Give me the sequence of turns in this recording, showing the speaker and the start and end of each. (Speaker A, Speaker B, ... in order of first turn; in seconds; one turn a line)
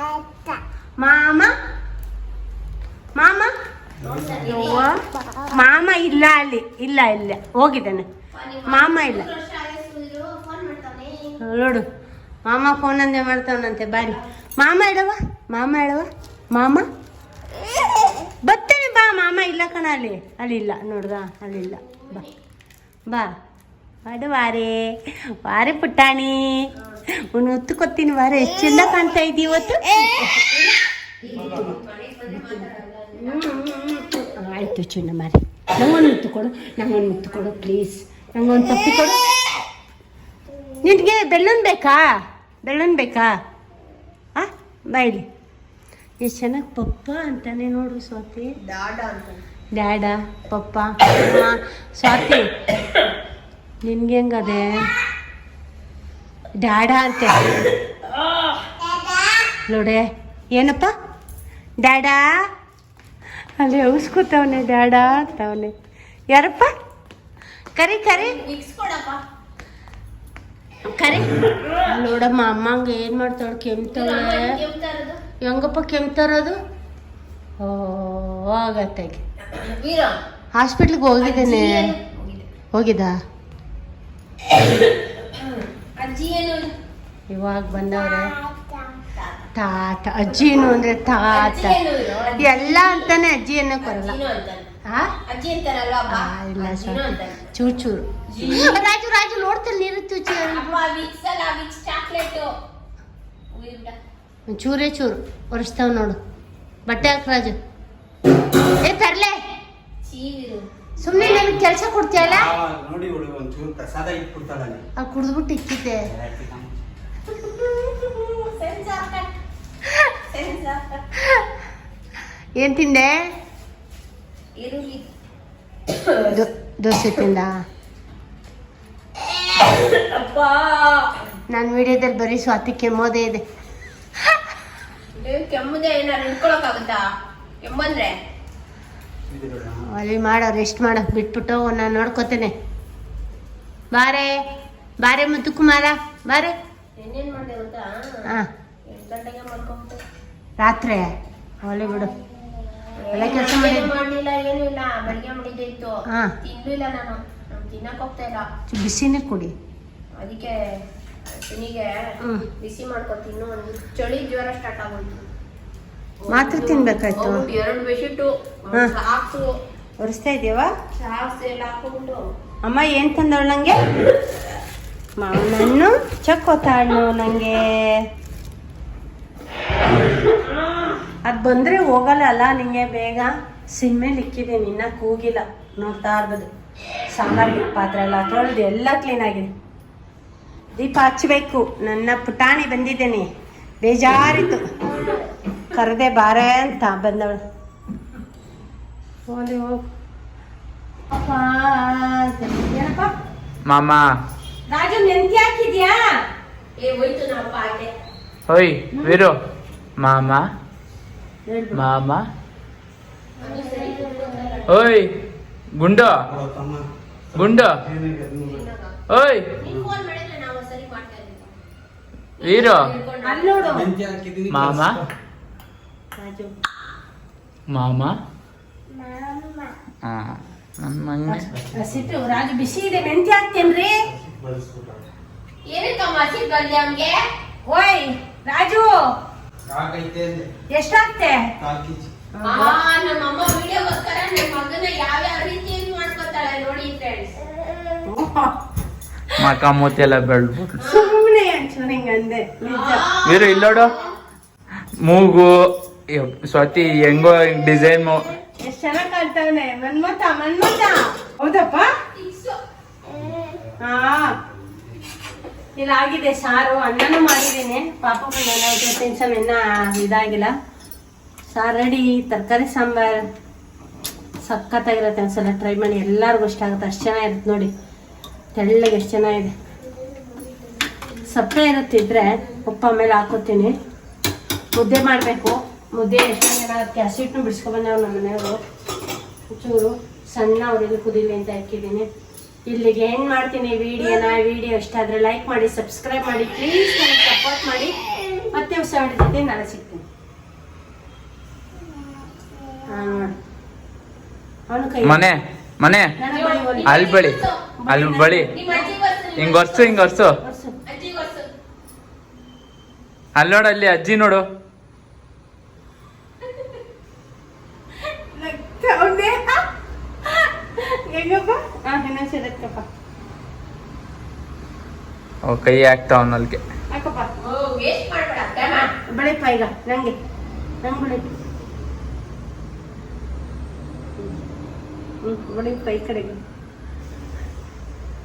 Speaker A: 1.0-1.5
Speaker A: 3.1-3.5
Speaker B: 4.0-4.3
Speaker C: 4.0-4.9
Speaker A: 4.5-5.0
Speaker A: 5.5-8.1
Speaker C: 8.3-11.4
Speaker A: 8.7-9.3
Speaker A: 11.4-11.8
Speaker A: 12.4-16.9
Speaker A: 18.4-22.2
Speaker C: 21.8-22.3
Speaker A: 24.0-24.9
Speaker A: 25.4-26.7
Speaker A: 27.3-30.1
Speaker C: 31.2-33.4
Speaker A: 31.4-31.7
Speaker A: 33.2-39.2
Speaker A: 40.8-42.1
Speaker A: 42.6-43.3
Speaker A: 44.3-45.2
Speaker A: 46.2-48.5
Speaker C: 48.6-49.4
Speaker A: 49.7-52.5
Speaker A: 53.8-54.9
Speaker A: 56.6-57.5
Speaker A: 59.7-60.9
Speaker A: 61.8-62.2
Speaker A: 63.6-65.7
Speaker A: 66.3-66.7
Speaker A: 67.8-68.4
Speaker C: 68.1-69.2
Speaker A: 71.0-71.3
Speaker C: 71.0-71.5
Speaker A: 71.8-74.5
Speaker C: 73.9-75.2
Speaker A: 75.4-76.6
Speaker A: 77.6-79.2
Speaker C: 79.6-80.2
Speaker A: 80.5-81.9
Speaker C: 81.2-82.5
Speaker A: 82.7-83.2
Speaker C: 85.3-86.7
Speaker A: 87.3-88.3
Speaker C: 88.5-89.3
Speaker A: 89.5-91.8
Speaker C: 91.3-93.1
Speaker A: 92.4-94.2
Speaker C: 93.8-94.7
Speaker A: 94.8-95.1
Speaker C: 95.3-97.5
Speaker A: 96.1-100.8
Speaker C: 98.3-98.8
Speaker C: 100.4-102.5
Speaker C: 103.5-104.0
Speaker A: 104.5-106.2
Speaker A: 106.9-107.5
Speaker A: 108.8-109.4
Speaker C: 110.0-111.5
Speaker A: 111.0-112.5
Speaker B: 112.2-114.8
Speaker A: 115.0-116.1
Speaker B: 116.1-116.7
Speaker C: 117.3-119.3
Speaker C: 120.3-121.0
Speaker A: 122.6-123.2
Speaker C: 124.5-125.1
Speaker C: 126.0-126.4
Speaker A: 126.3-127.6
Speaker C: 129.6-131.1
Speaker A: 131.5-133.4
Speaker C: 135.2-137.0
Speaker C: 137.6-138.2
Speaker B: 139.3-139.8
Speaker A: 139.9-142.5
Speaker A: 143.9-144.3
Speaker A: 145.0-146.5
Speaker C: 147.0-147.9
Speaker C: 148.9-150.0
Speaker A: 150.6-151.1
Speaker A: 151.6-152.1
Speaker C: 153.1-158.5
Speaker A: 153.1-153.9
Speaker A: 156.1-156.3
Speaker A: 158.7-159.5
Speaker C: 160.1-160.5
Speaker C: 161.3-165.2
Speaker A: 162.2-162.4
Speaker C: 166.2-169.5
Speaker A: 166.3-167.4
Speaker A: 170.0-170.7
Speaker C: 170.9-172.2
Speaker A: 172.6-173.8
Speaker A: 175.2-178.0
Speaker A: 181.2-186.5
Speaker A: 187.1-189.5
Speaker A: 190.7-193.3
Speaker A: 193.8-195.1
Speaker A: 195.7-197.4
Speaker A: 199.3-199.8
Speaker A: 201.1-203.1
Speaker D: 203.6-204.0
Speaker A: 204.7-206.2
Speaker C: 206.8-207.9
Speaker D: 208.5-209.3
Speaker A: 208.9-209.2
Speaker D: 210.0-210.4
Speaker A: 211.5-211.8
Speaker D: 211.8-212.2
Speaker C: 213.4-214.7
Speaker D: 214.7-215.1
Speaker D: 215.8-216.2
Speaker B: 216.3-216.8
Speaker D: 217.3-217.8
Speaker B: 217.3-218.7
Speaker C: 218.4-218.9
Speaker D: 219.1-219.5
Speaker C: 219.6-221.5
Speaker B: 219.7-219.9
Speaker C: 222.4-223.8
Speaker D: 222.4-222.9
Speaker A: 223.2-223.9
Speaker B: 223.7-225.1
Speaker D: 224.5-225.0
Speaker A: 226.2-226.5
Speaker D: 227.7-228.1
Speaker D: 230.0-231.5
Speaker B: 231.3-232.5
Speaker A: 231.7-234.0
Speaker B: 234.1-235.1
Speaker C: 235.6-237.2
Speaker A: 237.7-239.1
Speaker B: 239.7-240.5
Speaker A: 240.7-241.5
Speaker B: 241.6-242.1
Speaker A: 242.4-242.8
Speaker C: 242.4-247.4
Speaker A: 248.1-248.6
Speaker D: 249.4-250.8
Speaker A: 250.8-253.1
Speaker C: 250.8-251.1
Speaker C: 252.6-254.1
Speaker D: 253.2-253.9
Speaker D: 255.0-255.6
Speaker D: 256.1-258.4
Speaker A: 258.6-261.9
Speaker C: 262.1-262.6
Speaker B: 263.1-265.2
Speaker A: 263.8-264.4
Speaker A: 265.8-270.5
Speaker A: 271.5-273.3
Speaker A: 274.4-277.7
Speaker A: 278.5-279.5
Speaker A: 281.2-283.8
Speaker A: 284.7-288.6
Speaker A: 289.5-292.1
Speaker A: 292.7-297.9
Speaker A: 298.5-300.0
Speaker A: 302.8-303.3
Speaker A: 304.7-305.3
Speaker D: 305.1-306.1
Speaker A: 306.2-307.0
Speaker C: 306.3-307.6
Speaker D: 306.9-307.4
Speaker A: 307.8-308.9
Speaker D: 307.9-308.5
Speaker C: 308.5-310.1
Speaker D: 309.4-310.3
Speaker A: 310.4-310.7
Speaker C: 310.9-311.5
Speaker D: 313.4-314.4
Speaker A: 318.3-319.6
Speaker A: 320.2-322.9
Speaker D: 325.4-326.6
Speaker A: 326.9-327.3
Speaker C: 327.4-328.9
Speaker A: 329.1-330.1
Speaker A: 330.8-331.3
Speaker A: 335.2-336.4